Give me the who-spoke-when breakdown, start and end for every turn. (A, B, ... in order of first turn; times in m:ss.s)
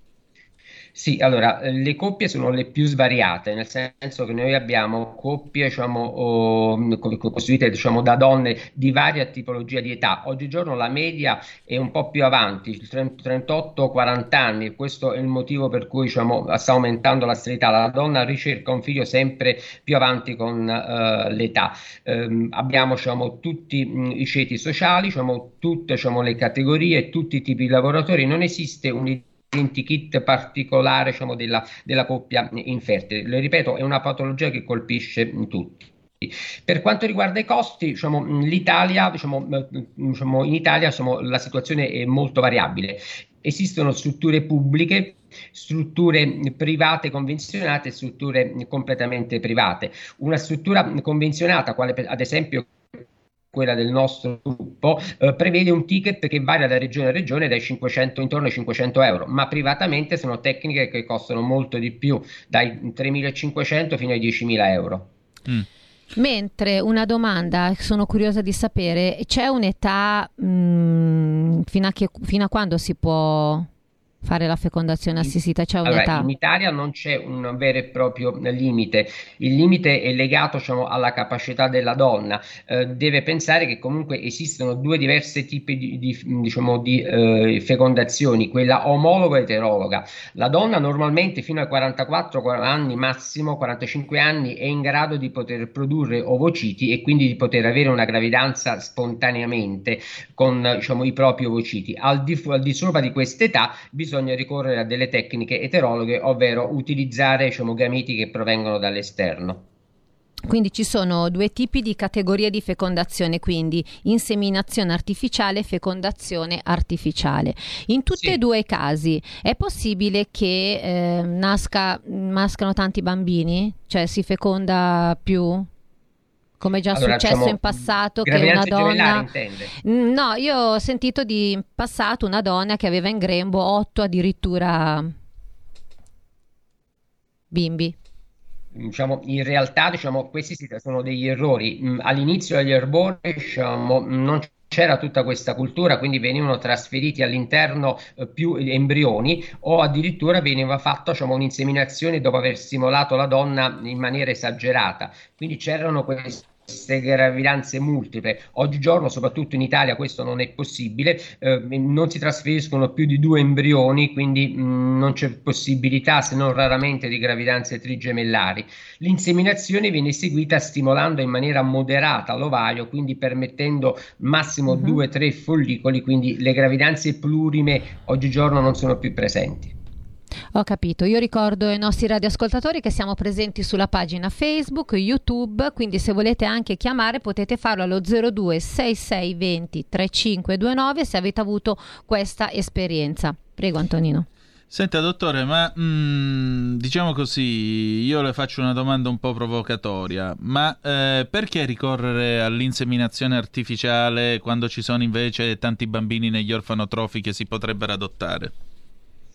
0:00.9-1:05.1 A
1:06.2-1:13.7 B
1:14.2-1:16.3 B
1:15.8-1:49.6 A
1:50.4-2:05.7 B
2:06.6-2:09.3 B
2:06.9-2:09.7 A
2:09.8-2:15.1 B
2:17.5-2:18.0 B
2:18.7-2:59.8 A
2:54.7-2:55.0 B
3:00.5-3:14.3 B
3:14.7-3:28.5 C